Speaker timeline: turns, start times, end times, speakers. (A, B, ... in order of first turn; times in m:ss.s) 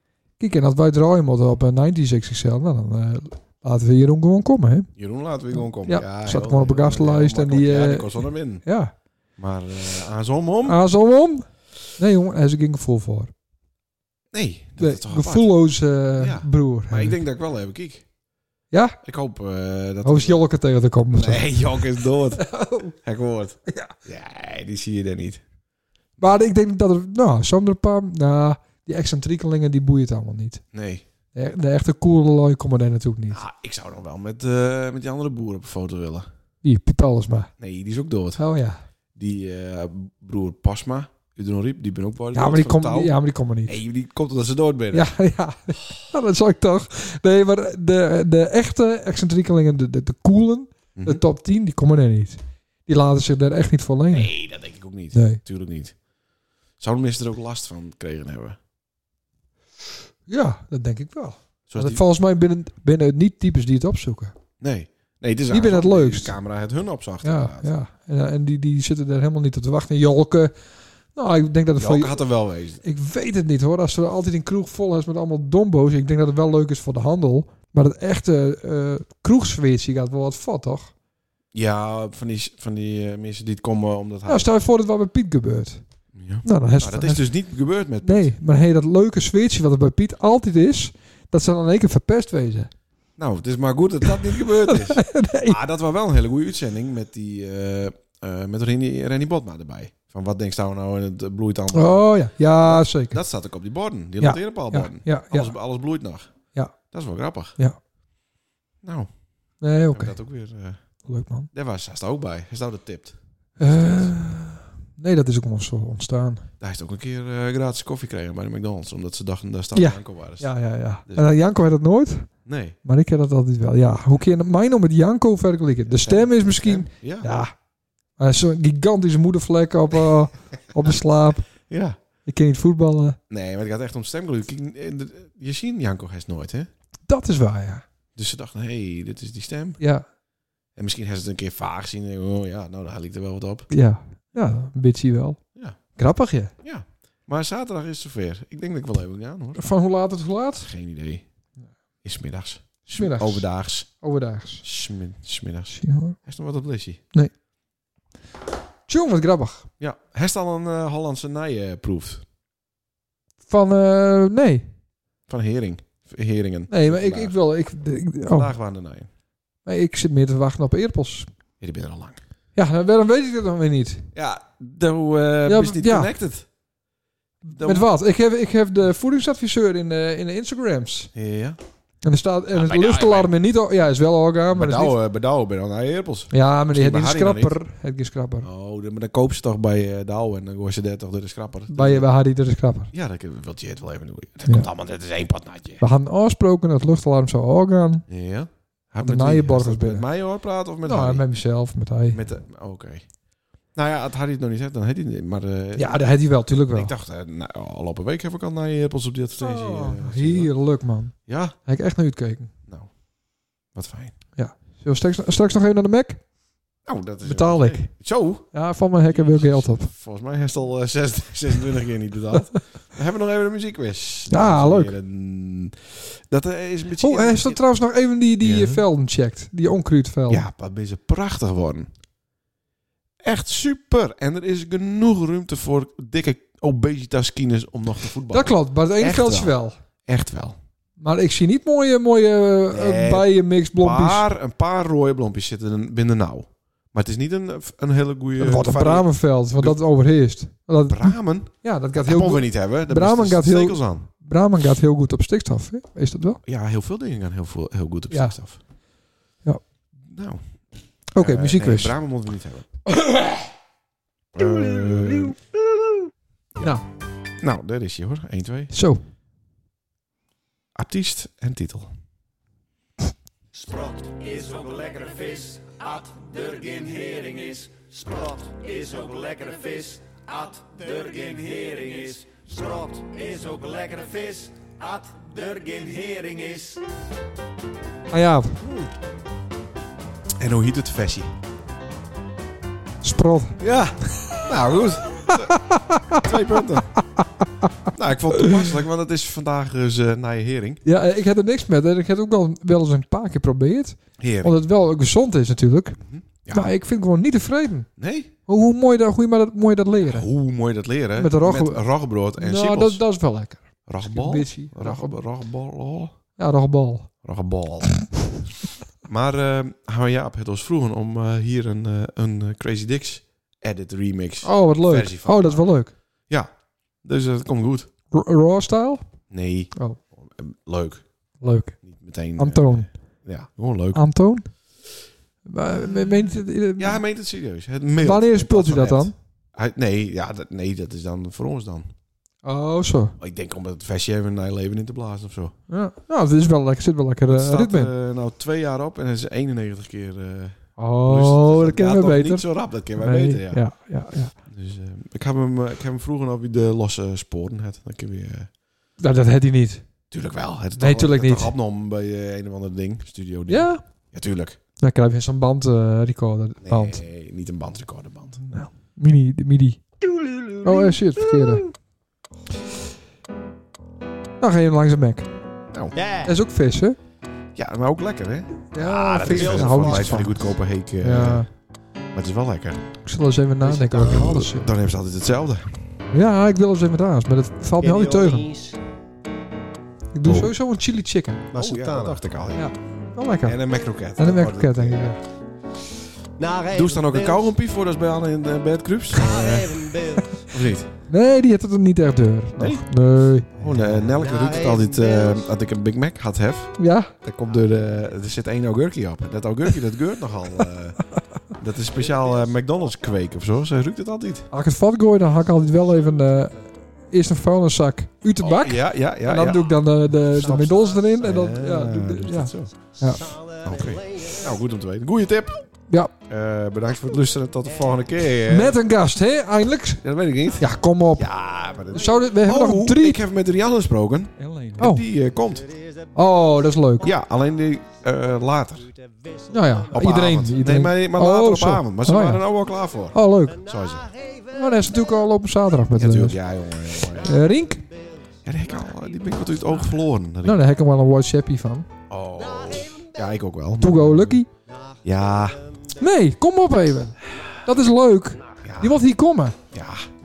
0:00.4-0:04.9 A
0:05.0-0:08.6 B
0:05.6-0:08.9 A
0:09.4-0:10.8 B
0:10.6-0:13.3 A
0:14.3-0:15.6 B
0:14.8-0:17.2 A
0:16.2-0:18.0 B
0:18.7-0:19.0 A
0:19.0-0:20.5 B
0:20.0-0:23.0 A
0:21.1-0:25.4 B
0:23.7-0:23.9 A
0:26.2-0:30.6 A
0:30.7-0:31.0 B
0:31.3-0:33.4 A
0:33.3-0:36.3 B
0:36.6-0:37.5 A
0:37.6-0:38.4 B
0:38.4-0:38.8 A
0:39.2-0:45.1 B
0:42.3-0:43.8 A
0:44.9-0:54.4 A
0:51.0-0:51.2 B
0:54.1-0:56.0 B
0:55.1-0:55.4 A
0:56.8-0:58.6 B
1:00.3-1:04.4 A
1:01.7-1:02.0 B
1:04.6-1:07.7 B
1:05.5-1:06.4 A
1:07.2-1:10.6 A
1:11.1-1:12.2 A
1:11.8-1:12.8 B
1:12.8-1:20.9 A
1:21.5-1:24.5 B
1:24.3-1:25.8 A
1:26.1-1:28.4 B
1:26.4-1:27.3 A
1:28.0-1:32.7 A
1:33.2-1:46.3 B
1:34.0-1:35.6 A
1:41.7-1:43.2 A
1:44.2-1:45.5 A
1:46.9-1:47.6 B
1:48.8-1:49.1 B
1:49.6-1:50.1 A
1:49.9-1:50.8 B
1:51.1-1:51.5 A
1:51.5-1:54.2 B
1:53.6-1:56.5 A
1:56.6-2:00.5 B
1:59.8-2:02.3 A
2:02.4-2:02.8 B
2:02.8-2:07.5 A
2:05.9-2:07.4 B
2:08.2-2:11.5 A
2:11.6-2:12.0 B
2:12.3-2:13.2 A
2:13.3-2:16.7 B
2:17.1-2:17.8 A
2:18.2-2:19.8 B
2:19.8-2:20.0 A
2:20.8-2:23.7 B
2:23.7-2:25.4 A
2:26.0-2:26.5 A
2:26.6-2:29.7 B
2:29.6-2:30.7 A
2:30.6-2:31.2 B
2:32.0-2:33.9 B
2:32.9-2:34.6 A
2:34.6-2:37.0 B
2:35.7-2:36.2 A
2:38.9-2:39.7 A
2:39.8-2:42.2 B
2:43.5-2:44.7 A
2:45.3-2:47.4 B
2:46.7-2:48.5 A
2:48.3-2:49.1 B
2:49.6-2:51.3 A
2:51.6-2:52.2 B
2:52.6-2:54.1 A
2:54.1-2:56.5 B
2:55.5-2:56.1 A
2:57.4-3:01.1 A
2:57.5-2:57.9 B
3:01.1-3:01.6 B
3:02.0-3:05.0 A
3:02.5-3:03.3 B
3:04.5-3:07.6 B
3:06.3-3:08.5 A
3:08.4-3:12.1 B
3:11.7-3:12.9 A
3:12.9-3:15.8 B
3:15.8-3:18.0 A
3:18.1-3:21.3 B
3:19.0-3:20.1 A
3:20.8-3:22.2 A
3:22.1-3:23.1 B
3:23.7-3:30.5 B
3:25.8-3:26.9 A
3:29.4-3:32.5 A
3:31.3-3:31.6 B
3:33.7-3:34.1 B
3:34.4-3:36.2 A
3:36.8-3:47.6 B
3:37.2-3:37.9 A
3:38.5-3:39.9 A
3:44.3-3:45.0 A
3:47.0-3:50.4 A
3:48.4-3:48.8 B
3:50.3-3:51.9 B
3:53.2-4:00.6 B
3:58.3-3:59.8 A
4:01.0-4:04.3 A
4:02.7-4:09.8 B
4:08.4-4:16.4 A
4:10.9-4:14.1 B
4:16.4-4:18.6 B
4:18.1-4:18.4 A
4:20.1-4:20.4 B
4:21.1-4:22.0 A
4:21.2-4:22.8 B
4:24.4-4:25.4 B
4:27.4-4:28.7 B
4:28.7-4:29.0 A
4:30.8-4:31.9 B
4:33.5-4:46.8 C
4:48.1-4:48.6 A
4:50.4-4:51.3 B
4:53.0-4:53.6 A
4:53.6-4:57.0 B
4:55.3-4:56.3 A
4:57.2-4:57.7 A
4:57.9-5:00.8 B
4:58.3-4:58.7 A
5:00.8-5:07.9 A
5:04.2-5:04.6 B
5:06.0-5:06.7 B
5:08.0-5:08.3 B
5:08.5-5:10.3 A
5:10.0-5:13.0 B
5:11.2-5:11.8 A
5:12.4-5:15.1 A
5:13.9-5:16.1 B
5:16.4-5:17.1 A
5:17.2-5:18.4 B
5:19.0-5:25.7 B
5:24.4-5:25.9 A
5:26.3-5:27.9 B
5:28.1-5:29.0 A
5:29.3-5:31.1 B
5:29.7-5:30.0 A
5:31.4-5:32.9 A
5:31.8-5:34.0 B
5:34.0-5:34.5 A
5:35.4-5:37.0 A
5:36.8-5:41.9 B
5:38.0-5:39.1 A
5:42.4-5:43.2 A
5:43.2-5:45.6 B
5:45.7-5:47.9 A
5:47.3-5:53.7 B
5:50.8-5:54.4 A
5:54.4-5:58.5 B
5:59.0-5:59.9 A
6:00.1-6:04.6 B
6:00.8-6:01.5 A
6:03.5-6:03.8 A
6:04.8-6:07.0 A
6:06.6-6:08.6 B
6:08.5-6:09.8 A
6:10.0-6:11.6 C
6:10.6-6:11.6 A
6:14.4-6:15.3 A
6:16.0-6:16.3 C
6:16.2-6:17.0 A
6:17.6-6:21.5 B
6:18.7-6:20.4 A
6:18.8-6:20.4 C
6:21.0-6:21.5 A
6:22.1-6:22.9 B
6:23.0-6:24.7 A
6:23.6-6:25.8 B
6:26.1-6:28.4 A
6:27.8-6:28.8 C
6:30.1-6:31.5 A
6:30.2-6:30.5 B
6:31.5-6:32.2 C
6:31.5-6:32.7 B
6:32.5-6:33.6 A
6:33.4-6:35.1 B
6:34.1-6:35.2 A
6:36.4-6:37.6 C
6:36.7-6:40.9 B
6:39.1-6:40.4 C
6:41.1-6:43.5 A
6:42.6-6:42.9 B
6:43.6-6:54.5 B
6:44.0-6:45.5 C
6:46.8-6:47.1 A
6:47.5-6:48.1 C
6:51.9-6:53.3 C
6:54.5-7:03.3 A
6:55.7-6:56.3 C
6:58.4-6:59.8 B
7:00.4-7:02.7 B
7:00.4-7:01.3 C
7:02.9-7:04.5 C
7:03.6-7:05.7 B
7:06.3-7:08.8 B
7:07.7-7:08.1 C
7:08.4-7:10.0 A
7:10.0-7:15.7 B
7:10.6-7:13.2 A
7:11.3-7:12.0 C
7:14.4-7:15.1 A
7:15.4-7:18.3 C
7:16.1-7:17.1 A
7:17.0-7:18.9 B
7:18.8-7:20.2 C
7:19.5-7:22.4 A
7:19.9-7:24.1 B
7:23.1-7:23.6 A
7:23.4-7:25.2 C
7:24.5-7:26.4 A
7:26.0-7:27.3 B
7:27.1-7:29.9 C
7:27.2-7:27.8 A
7:28.4-7:30.6 B
7:30.4-7:31.9 A
7:32.1-7:34.4 B
7:32.4-7:33.3 C
7:33.8-7:34.5 A
7:34.7-7:35.9 C
7:35.0-7:35.6 B
7:36.0-7:39.6 A
7:38.6-7:39.0 B
7:39.7-7:40.1 B